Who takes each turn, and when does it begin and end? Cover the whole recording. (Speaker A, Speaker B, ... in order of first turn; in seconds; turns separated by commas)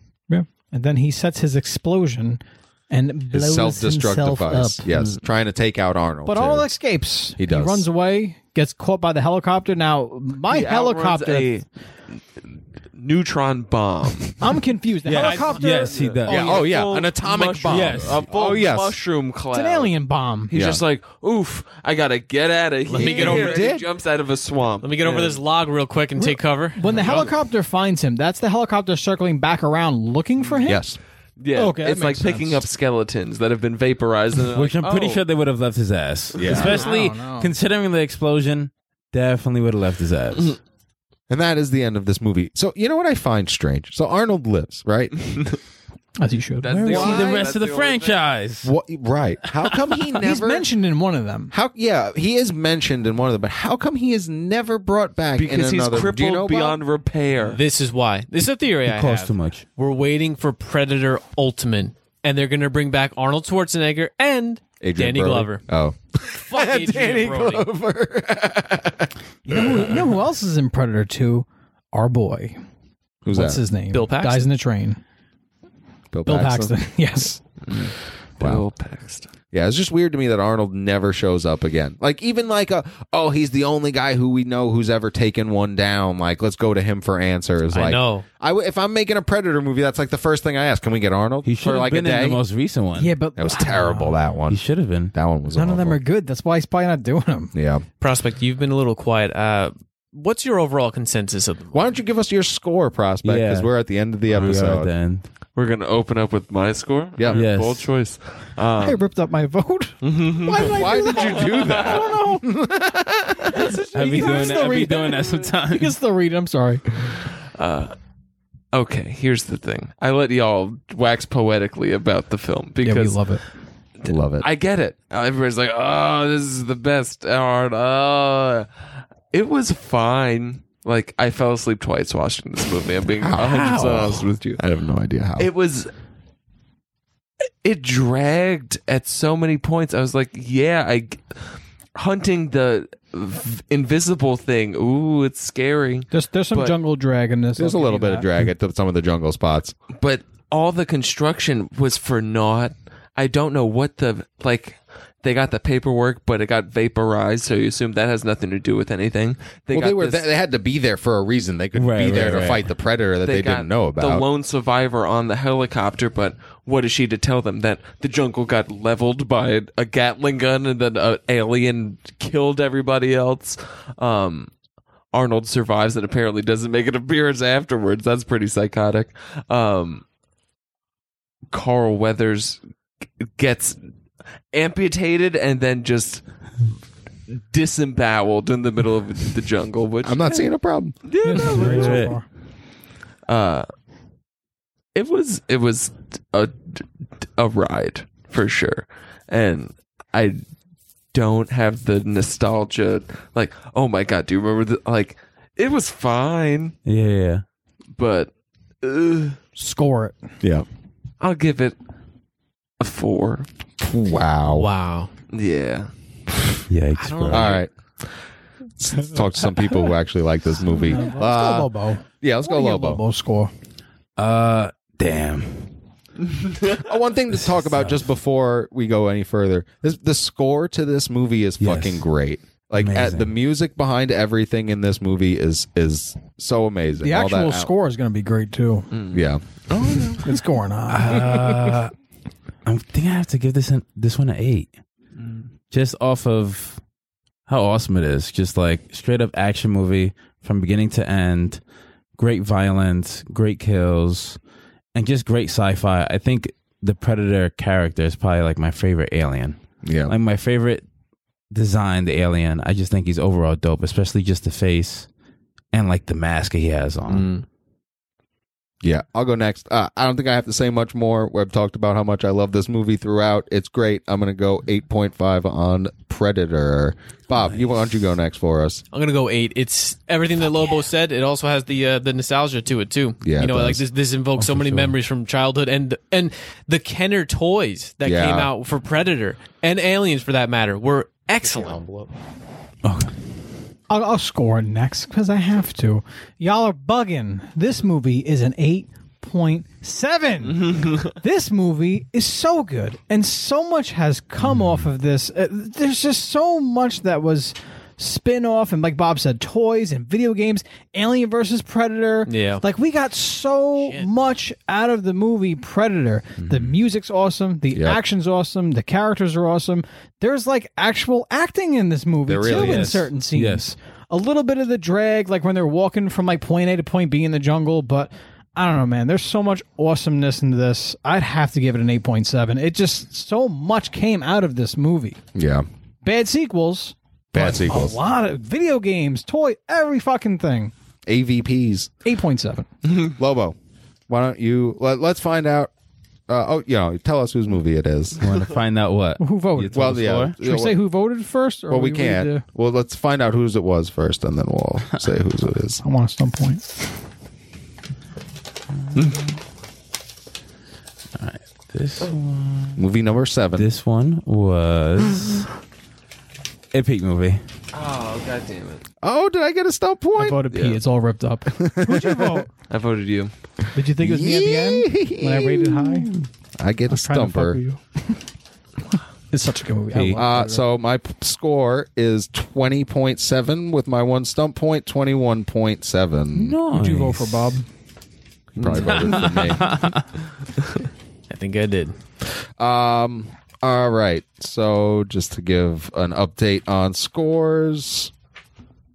Speaker A: 0.3-4.8, Speaker B: 3.3-6.7, Speaker C: 4.9-5.2, Speaker A: 6.3-11.5, Speaker B: 7.4-7.9, Speaker C: 10.5-11.7, Speaker C: 12.9-14.6, Speaker A: 14.4-16.7, Speaker D: 15.1-16.6, Speaker C: 15.1-19.9, Speaker B: 16.3-19.0, Speaker D: 17.7-18.3, Speaker A: 19.5-20.5, Speaker C: 20.5-25.4, Speaker B: 20.6-20.8, Speaker E: 22.9-23.7, Speaker B: 23.0-23.9, Speaker E: 24.8-26.8, Speaker A: 26.2-30.8, Speaker C: 26.9-27.3, Speaker B: 30.6-31.0, Speaker C: 31.4-35.2, Speaker A: 31.5-32.6, Speaker D: 34.5-40.6, Speaker C: 36.4-36.6, Speaker B: 36.4-36.9, Speaker A: 36.5-37.5, Speaker B: 41.3-45.3, Speaker A: 46.2-47.2, Speaker C: 46.6-48.2, Speaker D: 46.9-48.7, Speaker B: 46.9-47.4, Speaker B: 48.6-50.7, Speaker A: 50.2-51.5, Speaker B: 51.5-56.8, Speaker C: 55.4-57.6, Speaker E: 57.5-65.6, Speaker D: 58.9-59.6, Speaker B: 64.8-70.0, Speaker E: 66.3-67.7, Speaker A: 69.5-72.6, Speaker B: 73.2-73.6, Speaker A: 73.3-75.0, Speaker C: 73.9-74.4, Speaker B: 76.1-76.7, Speaker A: 76.2-77.4, Speaker C: 77.7-79.3, Speaker B: 79.5-92.4, Speaker E: 87.7-88.2, Speaker D: 91.4-93.2, Speaker A: 93.0-94.2, Speaker B: 93.4-94.6, Speaker D: 94.5-95.1, Speaker B: 95.1-96.0, Speaker A: 95.5-97.5, Speaker B: 97.5-97.8, Speaker E: 98.0-101.9, Speaker B: 101.7-104.9, Speaker D: 103.2-103.7, Speaker D: 104.3-105.2, Speaker C: 105.5-109.0, Speaker B: 107.2-107.5, Speaker D: 107.3-107.9, Speaker A: 108.8-112.4, Speaker C: 110.0-112.1, Speaker B: 110.7-113.7, Speaker A: 113.5-116.8, Speaker D: 113.9-116.0, Speaker C: 114.1-114.7, Speaker C: 117.4-118.0, Speaker C: 118.7-123.2, Speaker A: 122.8-123.4, Speaker C: 124.0-128.7, Speaker B: 124.1-124.5, Speaker C: 129.3-134.6, Speaker B: 133.2-135.5, Speaker C: 135.4-135.9, Speaker C: 137.6-141.4, Speaker C: 141.9-146.8, Speaker A: 146.1-148.5, Speaker B: 147.6-149.8, Speaker C: 149.9-160.3, Speaker B: 159.7-164.2, Speaker D: 161.8-162.7, Speaker C: 163.2-174.5, Speaker C: 175.1-180.0, Speaker C: 181.5-182.6, Speaker C: 183.2-183.8, Speaker C: 184.5-186.2, Speaker C: 187.3-190.4, Speaker B: 190.0-191.0, Speaker C: 191.0-192.2, Speaker A: 191.2-192.3, Speaker D: 191.4-192.2, Speaker C: 193.3-193.7, Speaker C: 194.9-200.4, Speaker C: 201.1-206.8, Speaker D: 206.8-207.4, Speaker C: 207.9-209.4, Speaker A: 209.6-210.2, Speaker C: 211.2-211.8, Speaker C: 212.8-213.5, Speaker B: 213.8-214.7, Speaker E: 214.4-215.1, Speaker C: 215.3-216.6, Speaker D: 216.7-217.6, Speaker E: 217.0-217.6, Speaker B: 217.3-217.7, Speaker B: 218.8-223.0, Speaker A: 220.7-223.5, Speaker D: 224.2-225.7, Speaker C: 226.3-226.7, Speaker B: 226.7-237.7, Speaker D: 227.3-228.1, Speaker D: 231.6-232.1, Speaker D: 232.8-233.3, Speaker A: 237.0-238.9, Speaker C: 238.9-240.4, Speaker B: 239.1-239.4, Speaker A: 240.2-241.2, Speaker D: 240.9-241.9, Speaker D: 242.7-244.7, Speaker C: 245.2-245.5, Speaker D: 245.7-246.8, Speaker D: 247.5-251.6, Speaker D: 252.2-254.4, Speaker D: 254.9-260.9, Speaker B: 259.8-260.1, Speaker D: 261.5-265.1, Speaker D: 265.7-267.3, Speaker B: 268.8-278.8, Speaker E: 278.9-291.8, Speaker B: 283.2-283.8, Speaker D: 284.4-284.9, Speaker B: 288.0-288.5, Speaker B: 291.7-292.1, Speaker D: 292.8-293.1, Speaker A: 293.9-335.2, Speaker C: 300.5-301.1, Speaker E: 312.3-312.6, Speaker E: 313.8-314.1, Speaker B: 317.8-318.0, Speaker B: 322.3-323.1, Speaker D: 322.5-323.7, Speaker B: 335.4-335.6, Speaker A: 336.0-340.7, Speaker B: 337.3-338.0, Speaker B: 341.1-341.9, Speaker A: 342.0-342.7, Speaker B: 343.2-343.6, Speaker B: 344.1-345.7, Speaker B: 346.3-348.3, Speaker D: 348.2-350.4, Speaker A: 349.2-352.4, Speaker B: 349.7-350.8, Speaker B: 351.7-355.8, Speaker A: 355.8-356.6, Speaker D: 358.8-359.3, Speaker D: 361.2-362.8, Speaker B: 362.8-363.7, Speaker D: 363.5-365.5, Speaker D: 366.7-367.4, Speaker C: 367.7-368.8, Speaker B: 369.0-370.4, Speaker A: 370.2-372.5, Speaker C: 370.5-370.8, Speaker B: 371.6-372.4, Speaker C: 372.7-373.3, Speaker A: 373.7-376.1, Speaker B: 374.0-377.6, Speaker A: 376.9-378.2, Speaker A: 379.3-380.7, Speaker D: 379.9-380.2, Speaker B: 380.1-386.6, Speaker D: 386.3-387.5, Speaker A: 386.6-387.6, Speaker B: 388.6-389.9, Speaker D: 388.6-390.1, Speaker E: 391.3-392.0, Speaker B: 392.6-398.1